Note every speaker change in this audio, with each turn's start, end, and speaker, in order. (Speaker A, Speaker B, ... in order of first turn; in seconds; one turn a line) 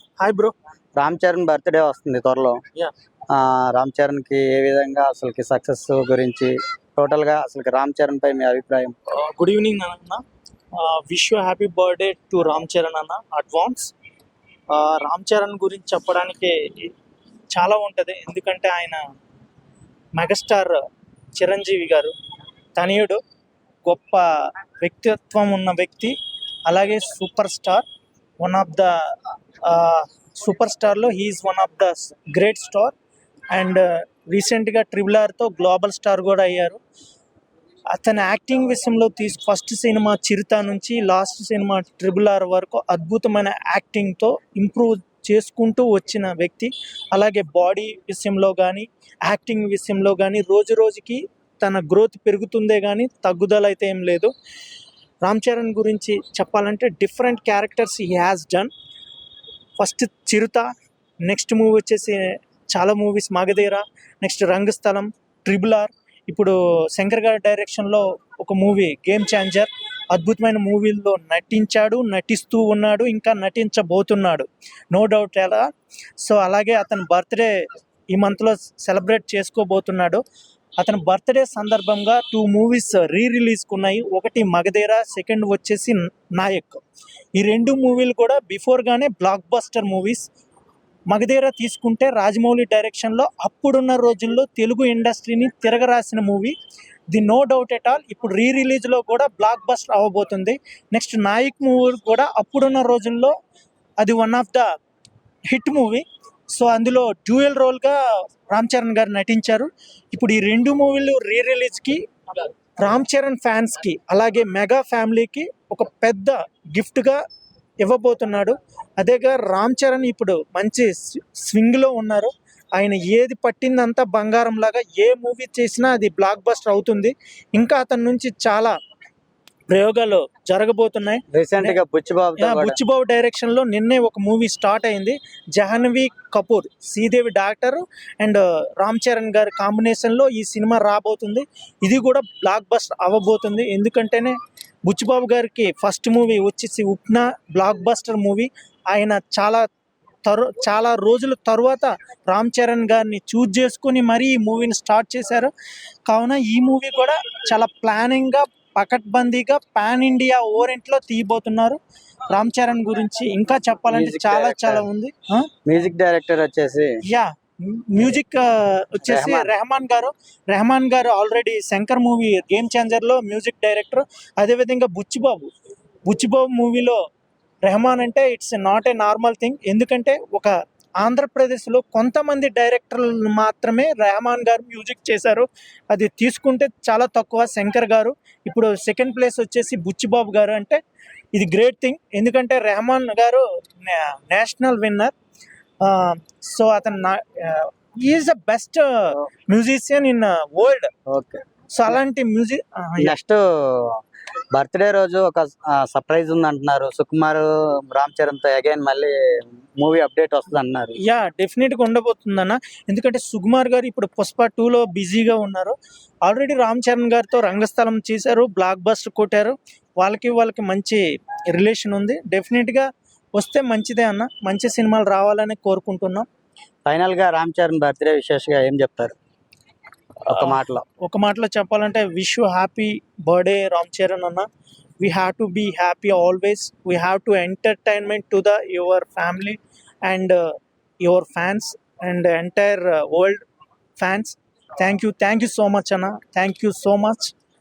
Speaker A: 0.2-0.5
Speaker B: 1.0-2.6
Speaker B: 3.3-8.9
Speaker A: 9.2-10.2
Speaker A: 10.8-13.9
Speaker A: 14.7-16.9
Speaker A: 17.5-19.0
Speaker A: 20.2-20.8
Speaker A: 21.4-22.1
Speaker A: 22.8-23.2
Speaker A: 23.9-24.2
Speaker A: 24.8-26.1
Speaker A: 26.7-27.9
Speaker A: 28.4-29.0
Speaker A: 29.6-33.0
Speaker A: 33.5-36.8
Speaker A: 37.9-54.3
Speaker A: 55.2-58.7
Speaker A: 59.8-60.7
Speaker A: 61.3-75.7
Speaker A: 76.2-80.2
Speaker A: 80.8-86.8
Speaker A: 87.4-90.3
Speaker A: 91.1-96.5
Speaker A: 97.1-103.3
Speaker A: 104.0-104.7
Speaker A: 105.5-108.0
Speaker A: 108.5-112.0
Speaker A: 112.8-117.2
Speaker A: 117.8-128.8
Speaker A: 129.7-131.8
Speaker B: 131.3-132.8
Speaker A: 132.4-149.7
Speaker A: 150.3-155.5
Speaker A: 156.1-161.8
Speaker A: 162.3-165.5
Speaker B: 163.9-164.8
Speaker B: 165.7-167.0
Speaker A: 167.1-175.5
Speaker B: 169.1-169.5
Speaker A: 176.1-177.0
Speaker A: 177.7-190.8
Speaker A: 191.3-195.1
Speaker A: 195.8-200.9
Speaker B: 201.1-201.4
Speaker A: 201.7-203.2
Speaker B: 203.0-204.0
Speaker B: 204.5-211.0
Speaker A: 211.1-226.3
Speaker B: 226.8-229.1
Speaker B: 230.2-230.8
Speaker A: 230.3-234.5
Speaker A: 235.0-243.4
Speaker A: 244.0-247.3